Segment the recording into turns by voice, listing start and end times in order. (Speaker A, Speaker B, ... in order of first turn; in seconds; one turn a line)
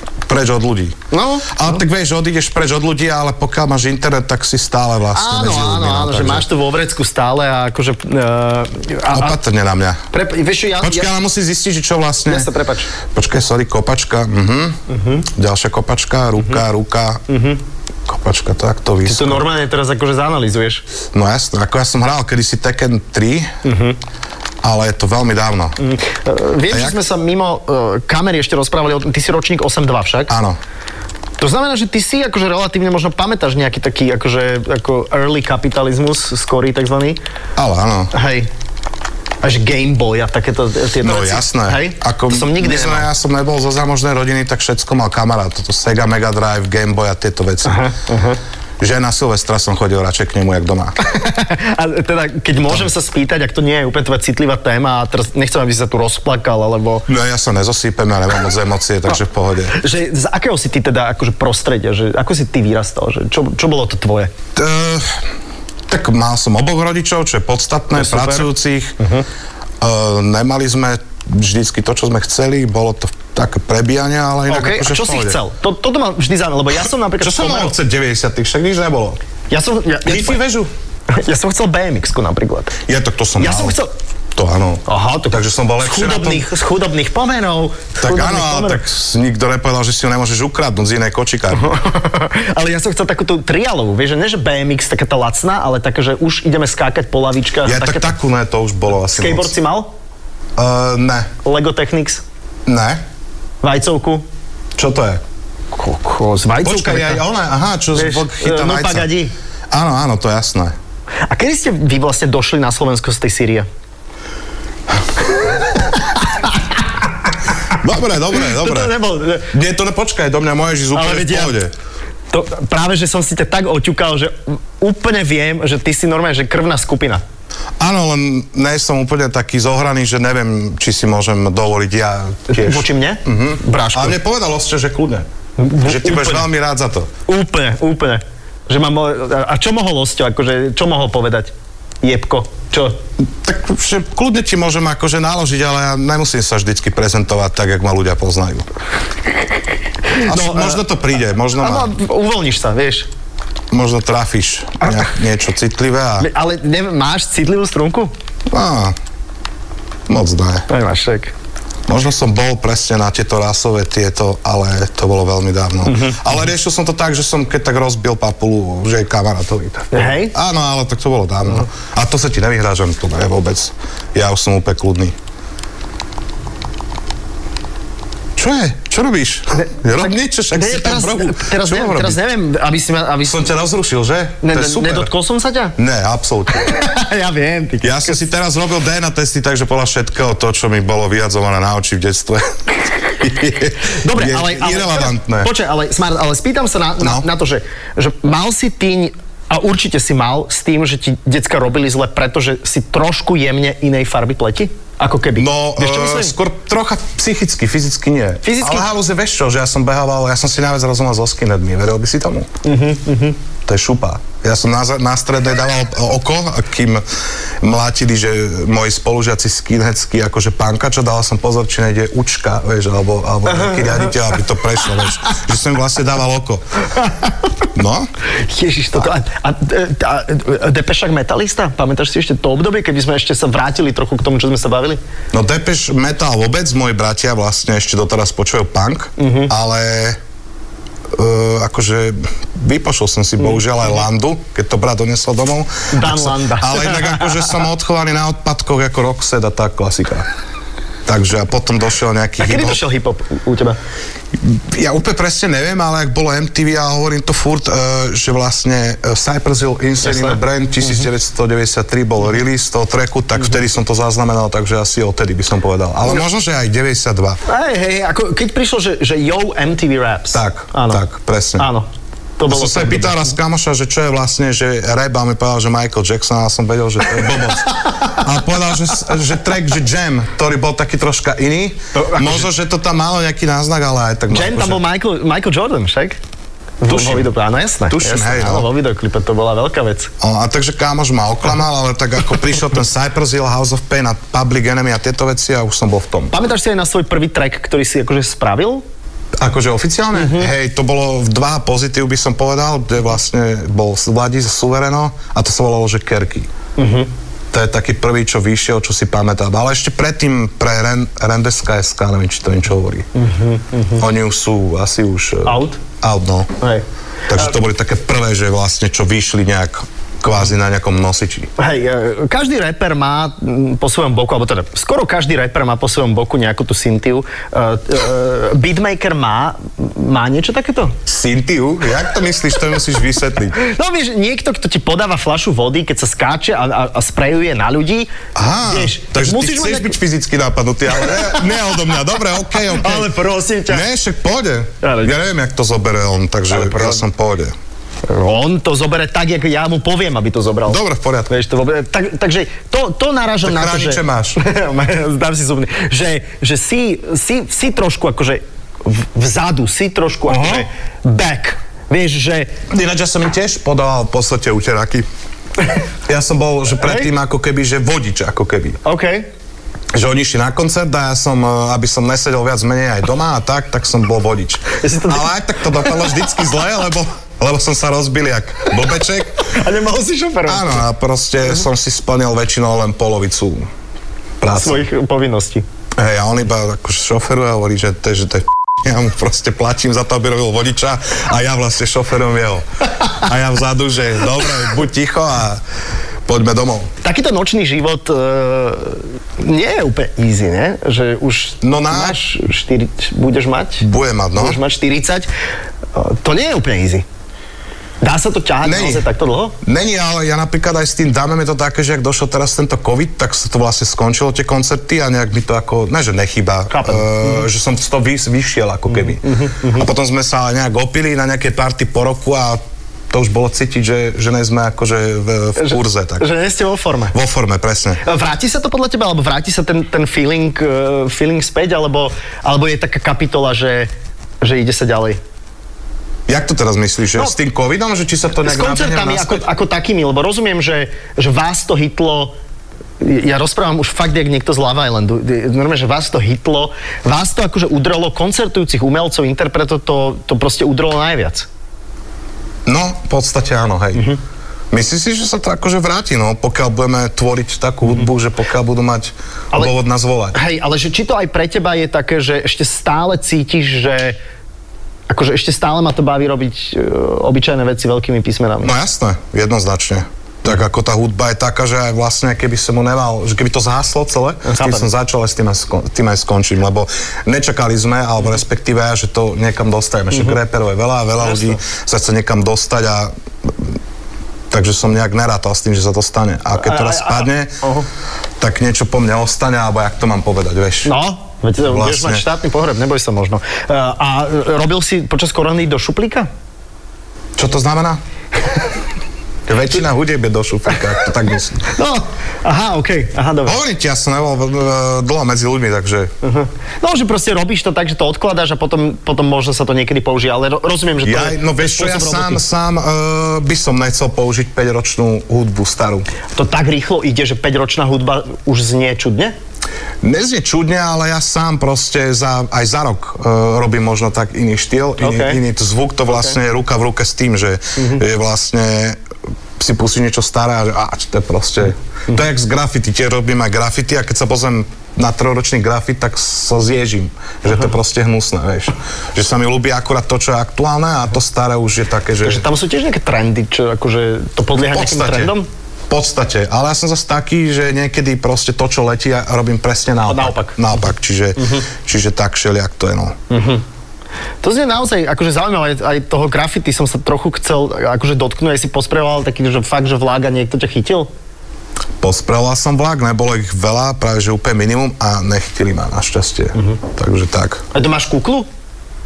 Speaker A: 0.3-1.0
Speaker B: 1.1-1.8
Speaker A: 1.5-6.5
Speaker B: 5.1-9.4
Speaker A: 9.1-10.0
Speaker B: 10.1-11.1
Speaker A: 10.8-12.5
Speaker B: 12.3-12.9
Speaker A: 13.1-17.2
Speaker B: 14.9-15.2
Speaker B: 17.3-17.6
Speaker A: 18.1-19.4
Speaker B: 19.0-20.8
Speaker A: 21.1-23.5
Speaker B: 23.6-24.0
Speaker A: 24.6-25.8
Speaker B: 25.8-30.3
Speaker A: 26.7-27.0
Speaker A: 30.3-30.6
Speaker B: 31.4-37.2
Speaker A: 37.6-38.1
Speaker B: 38.1-38.5
Speaker B: 39.4-43.1
Speaker A: 41.0-47.9
Speaker B: 47.6-48.4
Speaker A: 48.8-51.0
Speaker B: 51.0-57.1
Speaker A: 57.1-59.8
Speaker B: 59.7-64.3
Speaker A: 64.6-65.2
Speaker A: 65.9-69.0
Speaker B: 67.9-68.5
Speaker B: 69.0-69.2
Speaker A: 69.8-75.4
Speaker B: 74.5-77.8
Speaker A: 77.2-79.2
Speaker B: 79.5-80.4
Speaker A: 80.0-80.7
Speaker B: 81.1-82.8
Speaker A: 82.9-83.8
Speaker B: 83.4-83.9
Speaker A: 84.3-86.5
Speaker B: 84.9-88.8
Speaker A: 88.0-91.8
Speaker B: 91.5-98.1
Speaker A: 97.6-99.5
Speaker B: 99.1-99.9
Speaker A: 100.6-101.3
Speaker B: 101.4-102.2
Speaker A: 102.7-103.0
Speaker B: 103.6-104.3
Speaker A: 104.8-105.2
Speaker B: 105.7-107.2
Speaker A: 106.6-109.1
Speaker B: 107.9-109.3
Speaker A: 109.7-110.7
Speaker B: 111.3-113.7
Speaker B: 115.8-116.5
Speaker A: 117.7-119.0
Speaker B: 118.3-119.5
Speaker A: 119.5-121.7
Speaker B: 120.9-121.6
Speaker B: 122.3-127.2
Speaker A: 127.8-135.3
Speaker B: 132.5-134.2
Speaker B: 135.6-136.5
Speaker A: 135.8-137.1
Speaker B: 137.3-143.0
Speaker A: 143.4-148.7
Speaker B: 150.1-150.8
Speaker A: 150.2-151.9
Speaker B: 151.6-153.1
Speaker A: 153.7-156.3
Speaker B: 156.2-158.1
Speaker A: 158.5-158.9
Speaker A: 160.1-160.7
Speaker B: 160.7-161.3
Speaker A: 161.9-175.1
Speaker B: 165.9-166.2
Speaker B: 169.9-170.3
Speaker A: 178.4-182.2
Speaker B: 179.6-183.4
Speaker A: 183.2-185.1
Speaker B: 184.4-185.8
Speaker A: 185.8-186.8
Speaker B: 186.6-188.2
Speaker A: 187.8-195.5
Speaker B: 193.8-206.3
Speaker A: 197.0-197.3
Speaker A: 205.4-212.5
Speaker B: 208.4-208.9
Speaker B: 212.6-213.4
Speaker A: 213.7-217.0
Speaker A: 217.6-226.6
Speaker B: 223.5-224.2
Speaker B: 227.0-227.5
Speaker A: 227.8-228.1
Speaker B: 228.4-235.0
Speaker A: 235.3-240.2
Speaker B: 239.2-239.5
Speaker A: 241.1-250.3
Speaker B: 245.9-247.5
Speaker A: 251.1-252.8
Speaker B: 252.4-253.8
Speaker A: 254.4-267.4
Speaker B: 260.0-261.1
Speaker B: 267.5-271.0
Speaker A: 270.3-271.7
Speaker B: 271.6-271.9
Speaker B: 272.4-273.4
Speaker A: 272.5-284.8
Speaker B: 281.9-282.5
Speaker B: 284.3-286.2
Speaker B: 286.8-290.1
Speaker A: 286.9-287.3
Speaker A: 287.9-288.7
Speaker A: 290.2-296.3
Speaker B: 296.3-298.8
Speaker A: 299.4-306.5
Speaker B: 300.1-300.5
Speaker B: 306.8-307.1
Speaker A: 307.5-313.1
Speaker B: 313.1-314.0
Speaker A: 314.0-316.5
Speaker B: 315.4-315.8
Speaker A: 317.3-321.5
Speaker B: 321.6-331.0
Speaker A: 331.1-333.6
Speaker B: 333.6-338.1
Speaker A: 338.4-343.1
Speaker B: 338.6-340.0
Speaker B: 341.0-341.6
Speaker B: 342.7-343.9
Speaker A: 343.7-347.5
Speaker B: 344.8-345.1
Speaker B: 346.5-347.0
Speaker B: 348.1-362.5
Speaker A: 350.7-351.3
Speaker A: 353.4-354.4
Speaker A: 360.3-360.6
Speaker A: 362.7-365.1
Speaker A: 366.1-368.8
Speaker B: 366.8-367.1
Speaker B: 368.8-369.3
Speaker A: 369.9-379.4
Speaker B: 374.8-376.1
Speaker B: 379.4-380.9
Speaker A: 380.5-383.7
Speaker A: 384.4-384.9
Speaker B: 384.5-385.6
Speaker A: 386.0-395.6
Speaker A: 396.3-396.9
Speaker B: 397.0-405.3
Speaker A: 401.6-402.2
Speaker A: 403.8-404.6
Speaker B: 405.9-407.1
Speaker B: 408.0-409.6
Speaker A: 408.6-409.1
Speaker A: 409.6-426.3
Speaker B: 416.7-417.4
Speaker B: 418.9-419.9
Speaker B: 425.6-427.1
Speaker A: 427.1-428.0
Speaker B: 428.0-435.2
Speaker A: 436.3-439.4
Speaker B: 438.4-442.4
Speaker B: 443.0-451.5
Speaker A: 452.7-454.1
Speaker A: 454.7-460.4
Speaker B: 460.3-464.2
Speaker B: 465.1-468.7
Speaker A: 468.6-483.8
Speaker B: 474.4-474.9
Speaker B: 481.2-481.6
Speaker A: 484.5-487.5
Speaker B: 486.6-487.9
Speaker A: 488.4-490.9
Speaker B: 490.9-496.3
Speaker A: 491.6-492.2
Speaker A: 497.4-498.0
Speaker A: 499.5-501.7
Speaker B: 501.7-503.6
Speaker A: 503.4-506.1
Speaker B: 506.2-512.4
Speaker A: 511.0-516.1
Speaker B: 516.4-519.4
Speaker A: 520.0-529.0
Speaker B: 525.0-525.4
Speaker B: 527.8-528.0
Speaker A: 529.6-542.5
Speaker B: 542.2-545.5
Speaker A: 544.6-545.4
Speaker A: 545.9-553.2
Speaker B: 550.1-550.6
Speaker B: 551.4-551.7
Speaker B: 553.3-553.6
Speaker B: 554.4-561.1
Speaker A: 562.0-567.6
Speaker B: 567.7-568.5